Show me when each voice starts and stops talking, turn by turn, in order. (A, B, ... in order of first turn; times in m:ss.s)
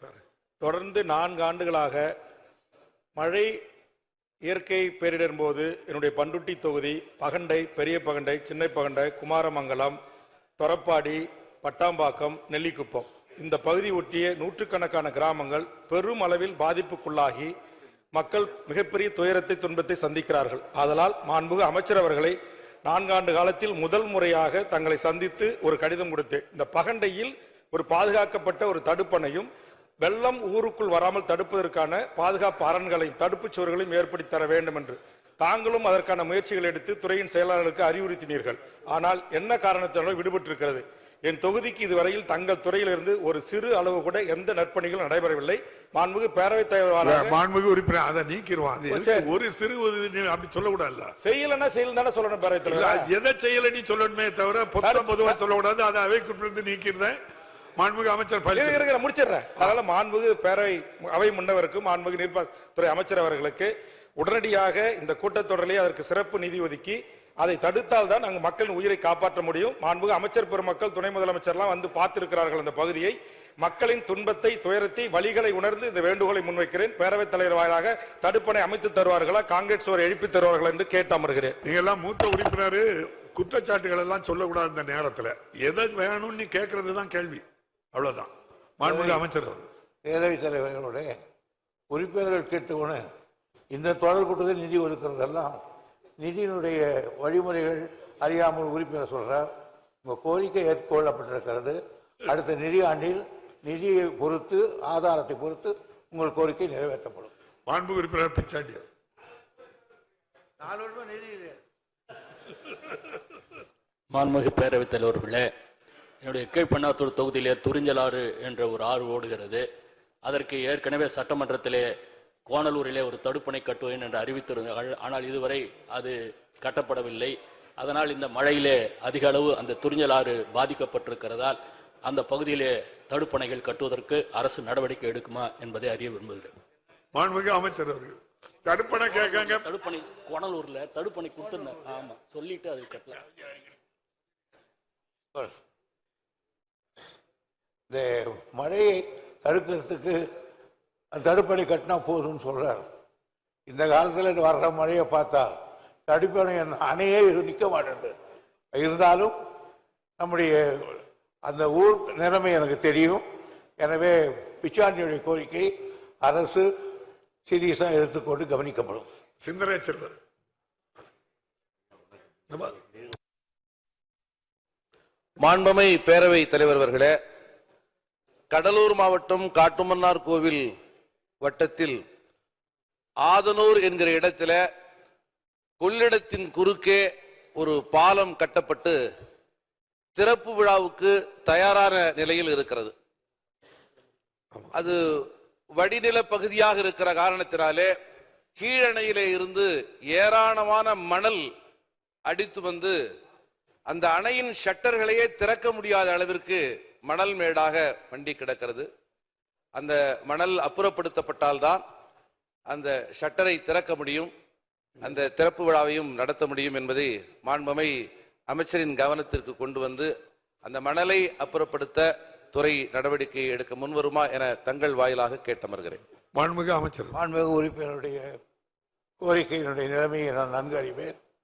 0:00.6-0:02.1 A
0:03.2-0:03.5 A
0:04.5-0:10.0 A
0:10.6-0:17.5 A
0:18.1-0:29.5 A
0:30.0-0:47.4 A
0:47.0-0:51.1 B
0:48.9-0:49.3 A
0:51.2-0:53.1 A
0:52.7-0:57.2 B
0:54.8-0:55.4 A
0:57.8-0:58.9 B
0:58.5-1:21.6 A
1:21.6-1:29.7 B
1:28.8-1:29.2 C
1:30.0-1:31.1 C
1:31.9-1:33.0 C
1:33.7-1:35.6 C
1:36.2-1:39.5 C
1:40.0-1:47.3 C
1:47.7-1:48.8 B
1:50.6-1:51.6 C
1:54.1-1:55.5 D
1:56.2-1:59.6 D
2:00.2-2:01.9 D
2:02.5-2:16.5 D
2:17.1-2:19.6 B
2:19.1-2:23.2 D
2:27.9-2:30.2 C
2:31.1-2:32.8 C
2:33.7-2:35.5 C
2:36.1-2:38.1 C
2:38.8-2:39.3 C
2:40.2-2:43.2 C
2:43.8-2:45.7 C
2:46.2-2:46.7 C
2:47.5-2:49.0 C
2:49.4-2:50.1 B
2:52.5-2:52.8 B
2:55.4-2:57.1 E
2:58.5-3:00.7 E
3:01.4-3:02.0 E
3:03.3-3:04.6 E
3:05.8-3:07.0 E
3:07.6-3:09.0 E
3:10.2-3:12.9 E
3:14.7-3:15.0 E
3:15.7-3:17.9 E
3:18.6-3:21.5 E
3:22.3-3:23.0 E
3:23.9-3:28.9 E
3:29.8-3:31.8 E
3:32.7-3:34.3 E
3:35.0-3:37.9 E
3:38.5-3:40.1 E
3:40.6-3:46.0 E
3:46.3-3:47.2 B
3:47.1-3:48.4 C
3:49.2-3:51.2 C